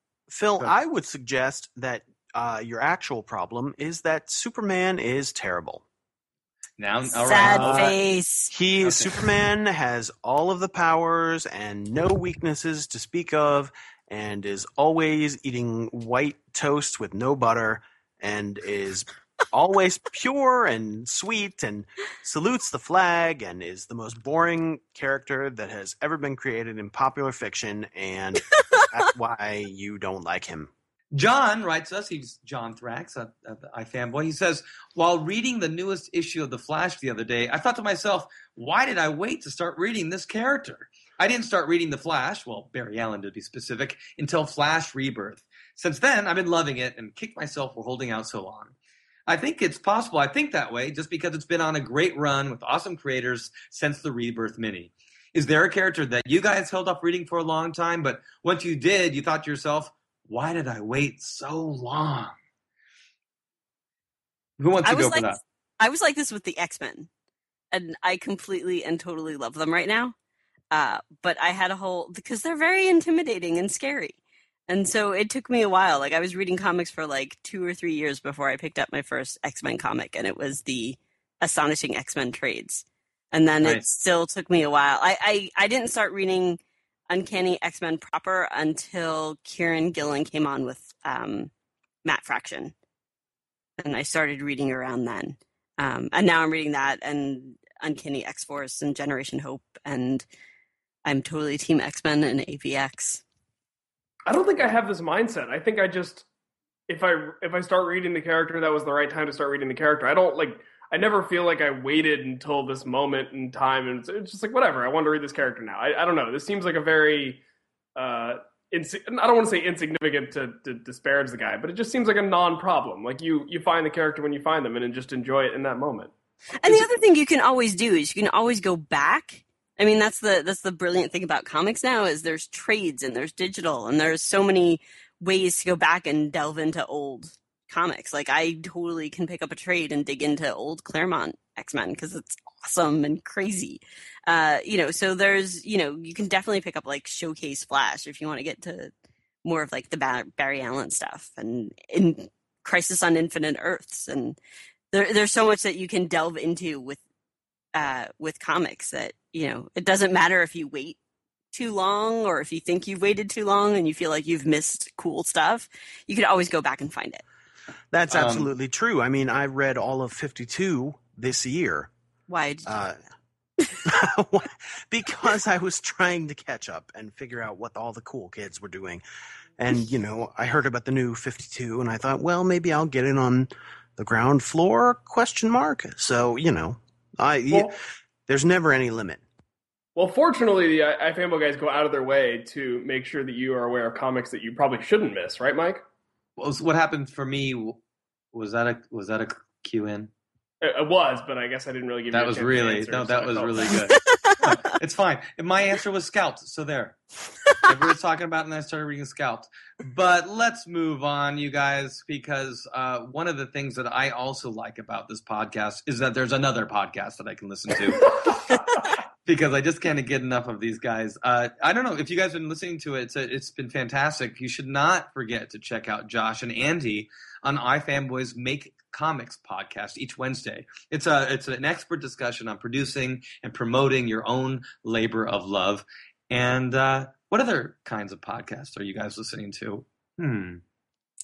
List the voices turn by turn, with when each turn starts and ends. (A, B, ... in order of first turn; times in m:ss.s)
0:00.3-0:05.8 A
0:06.8-0:08.0 B
0:07.2-0:08.5 C
0:07.4-0:07.9 A
0:08.5-0:30.7 A
0:08.8-0:09.1 B
0:31.1-0:48.7 B
0:49.3-1:02.4 B
1:04.6-1:05.4 B
1:04.8-1:07.1 C
1:07.7-1:10.1 C
1:10.7-1:14.2 C
1:14.7-1:26.6 C
1:23.6-1:23.9 B
1:27.1-1:31.5 C
1:32.0-1:32.7 C
1:33.8-1:40.2 C
1:41.0-1:43.2 C
1:44.3-1:46.2 D
1:46.9-1:57.4 D
1:58.0-2:06.1 D
2:06.6-2:28.9 C
2:29.4-2:34.4 C
2:34.9-2:37.0 C
2:37.7-2:41.0 C
2:41.5-2:47.2 C
2:47.9-2:51.9 A
2:48.1-2:48.5 B
2:52.3-2:52.8 C
2:52.6-2:53.0 A
2:53.8-2:59.0 A
2:59.6-3:07.7 A
3:08.3-3:09.2 A
3:10.0-3:15.8 D
3:16.4-3:17.8 B
3:18.3-3:20.1 B
3:20.6-3:23.7 D
3:22.1-3:27.0 B
3:24.0-3:24.5 C
3:27.6-4:00.6 B